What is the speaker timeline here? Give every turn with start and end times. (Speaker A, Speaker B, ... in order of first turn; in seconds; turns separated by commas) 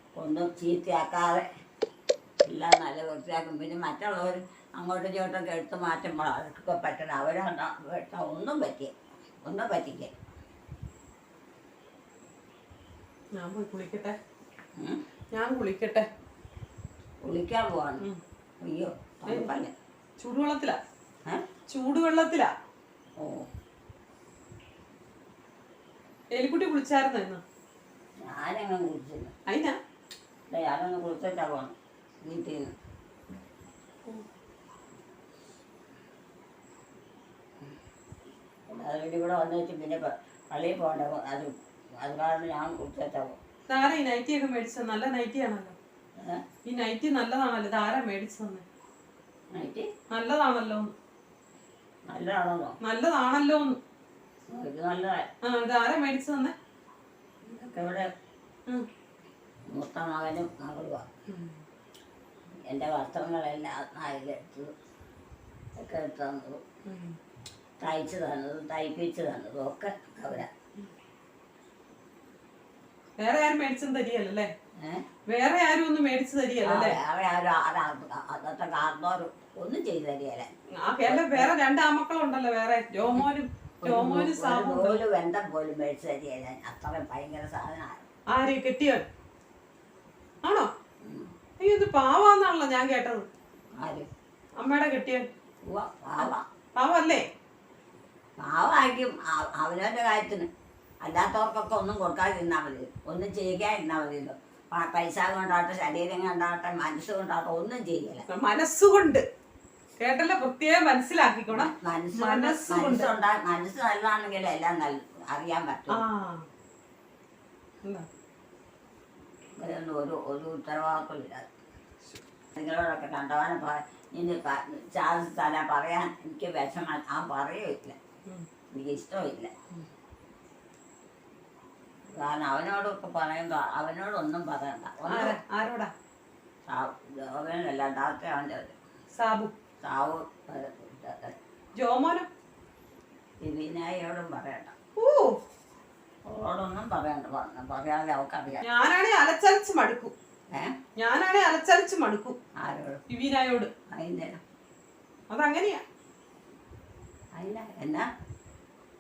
Speaker A: 0.1-1.4, Speaker A: 2.5-10.2, Speaker B: 13.4-14.2, Speaker A: 14.8-15.0, Speaker B: 15.3-16.1, Speaker A: 17.2-18.1, Speaker A: 18.6-19.7, Speaker B: 19.3-19.6, Speaker B: 20.2-20.8, Speaker B: 21.7-22.5, Speaker A: 23.2-23.5, Speaker B: 26.4-27.4, Speaker A: 28.2-29.3, Speaker B: 29.5-29.8, Speaker A: 30.5-32.7, Speaker A: 38.7-43.4, Speaker B: 43.7-45.8, Speaker A: 46.2-46.4, Speaker B: 46.6-48.6, Speaker A: 49.5-49.9, Speaker B: 50.1-50.9, Speaker A: 52.1-52.8, Speaker B: 52.8-53.8, Speaker A: 54.5-55.3, Speaker B: 55.4-56.5, Speaker A: 57.4-58.1, Speaker A: 59.7-61.1, Speaker B: 61.3-61.5, Speaker A: 62.7-64.7, Speaker A: 65.8-66.6, Speaker B: 66.9-67.2, Speaker A: 67.8-70.5, Speaker B: 73.2-74.5, Speaker A: 74.8-75.1, Speaker B: 75.3-77.0, Speaker A: 76.7-80.5, Speaker B: 80.8-85.0, Speaker A: 81.1-81.5, Speaker A: 83.8-88.1, Speaker B: 88.3-89.0, Speaker B: 90.4-90.7, Speaker A: 91.0-91.3, Speaker B: 91.6-93.3, Speaker A: 93.8-94.1, Speaker B: 94.6-95.3, Speaker A: 95.7-96.5, Speaker B: 96.2-97.2, Speaker A: 98.4-100.5, Speaker A: 101.0-108.2, Speaker B: 108.3-109.2, Speaker B: 110.0-113.1, Speaker A: 111.5-116.0, Speaker B: 115.9-116.5, Speaker A: 119.6-121.5, Speaker A: 122.5-128.0, Speaker A: 128.7-129.5, Speaker A: 132.2-135.4, Speaker B: 135.1-135.9, Speaker A: 136.7-138.8, Speaker B: 139.2-139.5, Speaker A: 139.8-141.4, Speaker B: 141.8-142.3, Speaker A: 143.4-144.7, Speaker B: 145.0-145.4, Speaker A: 146.2-148.7, Speaker B: 148.6-150.1, Speaker A: 150.5-150.8, Speaker B: 151.0-152.4, Speaker A: 152.6-153.0, Speaker B: 153.1-153.7, Speaker A: 153.9-154.4, Speaker B: 155.3-155.8, Speaker A: 157.3-158.1